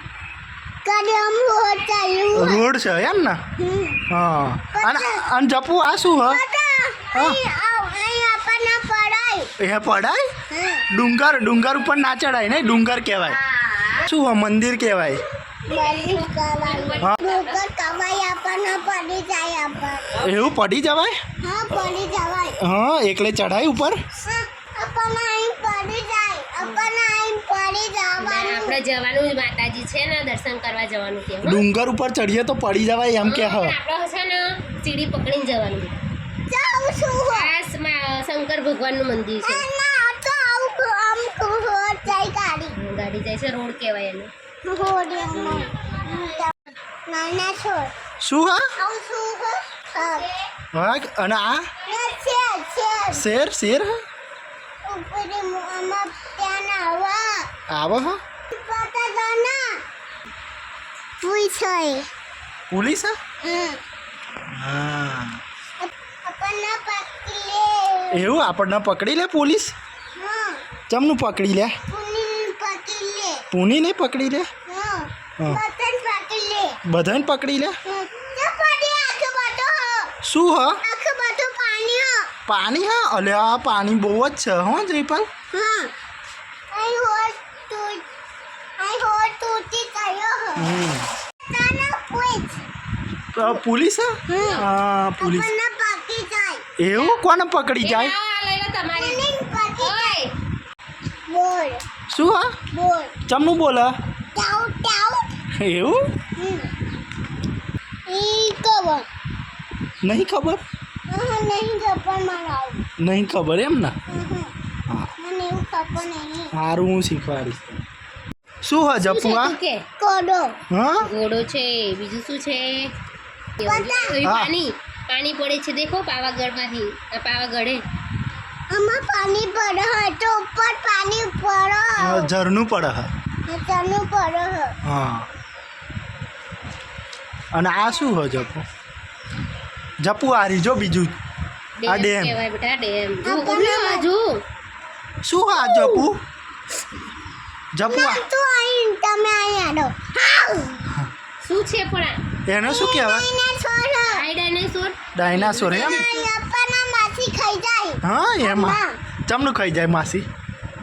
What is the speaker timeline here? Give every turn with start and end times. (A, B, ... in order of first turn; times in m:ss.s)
0:00.8-0:02.6 A
0:02.3-0:03.4 B
0:03.6-0:04.0 A
0:04.1-0:06.4 B
0:04.7-0:05.2 A
0:06.2-0:09.5 A
0:09.6-0:10.3 B
0:10.5-0:10.8 A
0:10.9-0:13.4 B
0:13.6-0:14.0 C
0:14.0-0:15.2 B
0:15.7-0:20.2 A
0:15.7-0:17.6 C
0:20.2-0:21.2 B
0:21.4-0:22.6 A
0:22.6-0:24.0 B
0:24.2-0:28.8 A
0:28.2-0:31.6 C
0:31.4-0:33.8 B
0:33.2-0:36.0 C
0:36.5-0:37.5 A
0:37.3-0:39.7 C
0:39.4-0:42.8 A
0:42.8-0:44.3 C
0:44.6-0:46.5 A
0:45.3-0:46.2 C
0:47.1-0:47.9 A
0:48.2-0:48.6 B
0:48.8-0:50.3 A
0:50.7-0:51.7 B
0:51.9-0:53.3 A
0:53.1-0:53.9 B
0:54.8-0:57.5 A
0:57.7-0:58.2 B
0:58.5-0:59.6 A
1:01.2-1:02.1 A
1:02.7-1:03.2 B
1:03.4-1:03.8 A
1:04.6-1:05.4 B
1:05.8-1:08.3 A
1:08.1-1:09.7 B
1:10.2-1:10.6 A
1:10.9-1:11.8 B
1:11.9-1:13.5 A
1:13.5-1:14.5 B
1:14.7-1:16.8 A
1:16.9-1:17.8 B
1:17.9-1:20.1 A
1:20.2-1:20.8 B
1:20.8-1:22.3 A
1:22.5-1:25.3 B
1:25.5-1:25.9 A
1:26.7-1:28.0 A
1:28.8-1:30.8 A
1:30.6-1:31.1 B
1:31.5-1:32.6 A
1:33.3-1:35.5 B
1:34.3-1:34.6 A
1:34.3-1:34.6 C
1:35.2-1:36.6 A
1:36.8-1:38.1 B
1:36.9-1:37.2 C
1:37.8-1:39.2 C
1:38.9-1:40.2 A
1:39.8-1:40.3 C
1:41.3-1:41.8 A
1:42.1-1:42.5 B
1:42.7-1:43.2 A
1:43.3-1:43.9 B
1:44.3-1:45.3 A
1:45.6-1:46.0 B
1:46.4-1:46.7 A
1:48.1-1:49.1 A
1:50.0-1:50.6 B
1:51.1-1:52.8 A
1:53.0-1:54.0 B
1:54.1-1:54.5 A
1:55.2-1:56.5 A
1:56.5-1:57.8 B
1:58.6-1:59.6 B
1:59.0-1:59.8 C
2:00.0-2:00.6 A
2:00.7-2:01.1 B
2:01.0-2:02.9 C
2:03.6-2:07.8 C
2:03.6-2:04.2 A
2:04.2-2:04.5 B
2:08.7-2:12.3 A
2:12.0-2:13.1 B
2:13.5-2:14.8 A
2:14.8-2:15.3 B
2:17.5-2:18.7 B
2:20.0-2:21.2 B
2:21.8-2:24.4 C
2:21.9-2:22.4 B
2:23.2-2:24.1 A
2:25.2-2:26.2 B
2:25.5-2:26.1 A
2:27.7-2:28.3 B
2:27.9-2:30.8 A
2:31.4-2:32.2 C
2:32.5-2:33.3 B
2:32.6-2:34.2 A
2:34.0-2:36.3 C
2:35.2-2:36.1 B
2:35.7-2:39.0 A
2:38.0-2:40.3 B